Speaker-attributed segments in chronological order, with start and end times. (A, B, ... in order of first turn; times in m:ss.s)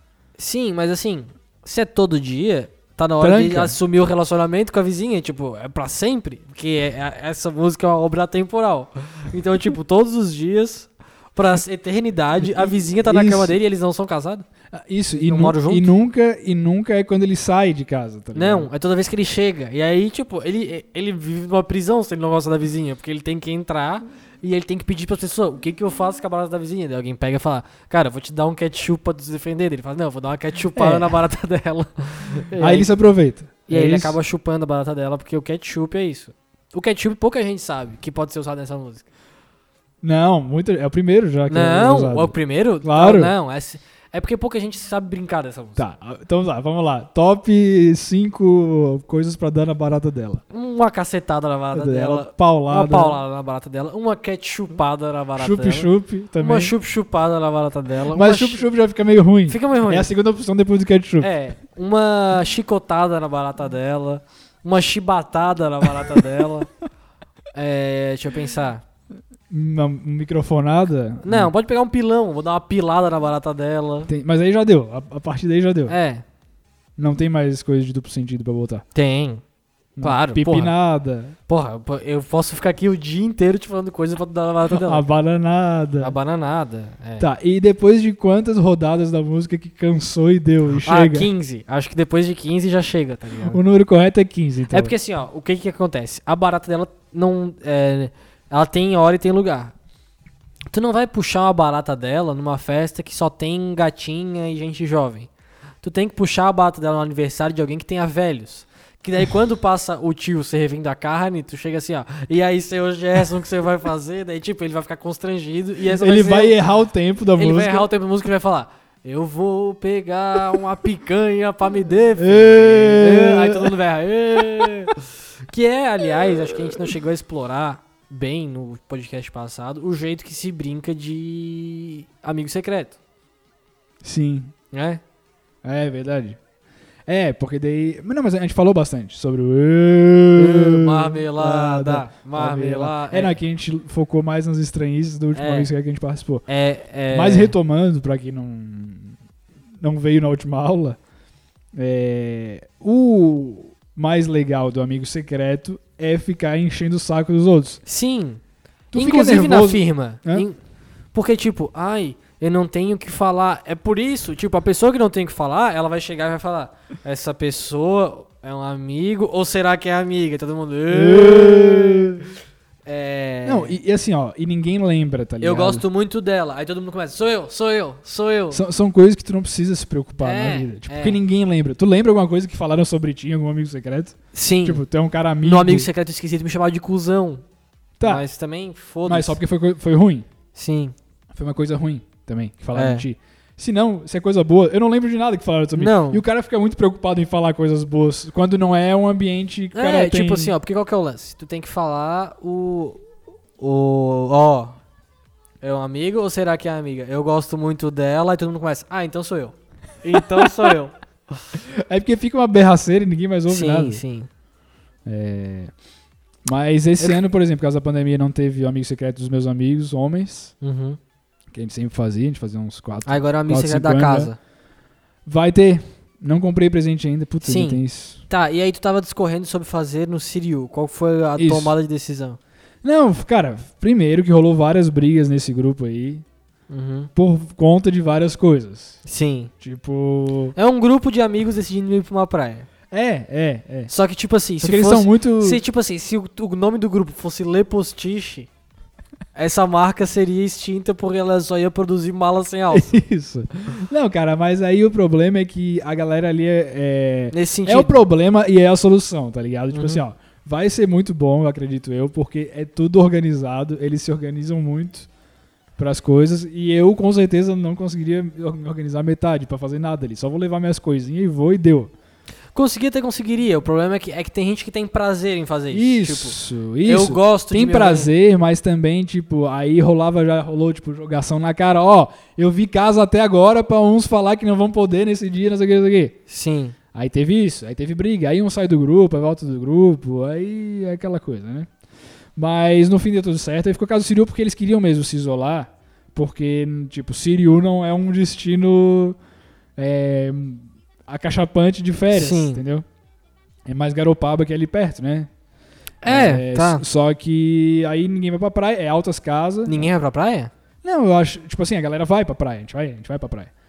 0:00.4-0:14.4 A
0:03.2-0:03.7 B
0:12.4-0:13.6 B
0:14.7-0:18.7 B
0:15.1-0:15.9 A
0:18.3-0:32.9 A
0:30.7-0:31.2 B
0:32.6-0:34.2 B
0:33.7-0:39.1 A
0:40.0-0:43.3 B
0:41.5-0:45.9 A
0:45.8-0:50.4 B
0:50.5-0:58.6 A
0:51.7-0:53.2 B
0:55.4-0:56.7 B
0:58.1-1:01.3 B
0:59.5-1:00.1 A
1:01.2-1:06.7 A
1:07.5-1:08.8 A
1:09.5-1:11.5 B
1:11.2-1:14.1 A
1:14.1-1:16.0 B
1:15.9-1:16.2 A
1:17.0-1:18.8 B
1:18.9-1:19.4 A
1:20.0-1:21.3 B
1:20.0-1:20.7 A
1:21.5-1:25.0 A
1:24.7-1:26.1 B
1:26.0-1:27.2 A
1:27.2-1:31.3 B
1:30.8-1:33.6 A
1:33.5-1:34.9 B
1:34.7-1:39.7 A
1:40.7-1:45.3 A
1:45.8-1:56.6 A
1:55.8-1:57.9 B
1:57.4-2:04.9 A
2:02.2-2:03.8 B
2:04.3-2:04.9 B
2:05.5-2:13.0 A
2:14.0-2:14.5 B
2:14.7-2:15.0 A
2:15.6-2:16.4 B
2:17.1-2:26.4 B
2:20.3-2:23.4 A
2:25.3-2:25.7 A
2:26.5-2:27.5 A
2:27.1-2:29.2 B
2:29.8-2:31.0 B
2:31.7-2:37.8 B
2:37.8-2:38.4 A
2:38.9-2:40.5 B
2:38.9-2:40.6 A
2:41.1-2:52.2 A
2:50.9-2:52.2 B
2:52.8-2:53.8 A
2:53.4-2:55.8 B
2:55.4-2:58.6 A
2:58.5-3:05.9 B
3:00.2-3:01.2 A
3:04.3-3:04.8 A
3:05.4-3:07.4 A
3:08.0-3:08.2 B
3:08.0-3:09.4 A
3:09.0-3:10.2 B
3:10.5-3:10.9 A
3:11.3-3:20.5 B
3:12.7-3:13.1 A
3:15.7-3:16.2 A
3:19.7-3:23.0 A
3:23.6-3:24.8 A
3:25.6-3:30.9 A
3:30.1-3:30.7 B
3:31.5-3:34.0 B
3:33.5-3:34.3 A
3:35.0-3:35.7 B
3:36.4-3:40.5 B
3:40.6-3:41.0 A
3:41.5-3:44.3 B
3:43.0-3:44.4 A
3:45.2-3:48.2 B
3:47.4-3:52.4 A
3:51.4-3:51.7 B
3:52.8-3:56.2 B
3:56.7-3:57.1 A
3:57.2-3:59.0 B
3:59.0-3:59.5 A
3:59.6-4:00.6 B
4:00.5-4:02.7 A
4:02.9-4:03.9 B
4:03.9-4:08.5 A
4:04.6-4:05.6 B
4:09.3-4:13.0 A
4:12.7-4:25.1 B
4:17.3-4:18.0 A
4:19.7-4:20.0 A
4:25.8-4:31.9 B
4:32.5-4:38.1 A
4:35.7-4:46.2 B
4:46.3-4:46.7 A
4:46.9-4:51.7 B
4:52.4-4:59.2 B
4:59.8-5:02.8 B
5:02.1-5:02.6 A
5:03.6-5:05.3 B
5:06.0-5:06.8 A
5:06.0-5:09.9 B
5:09.6-5:10.5 A
5:10.8-5:13.5 B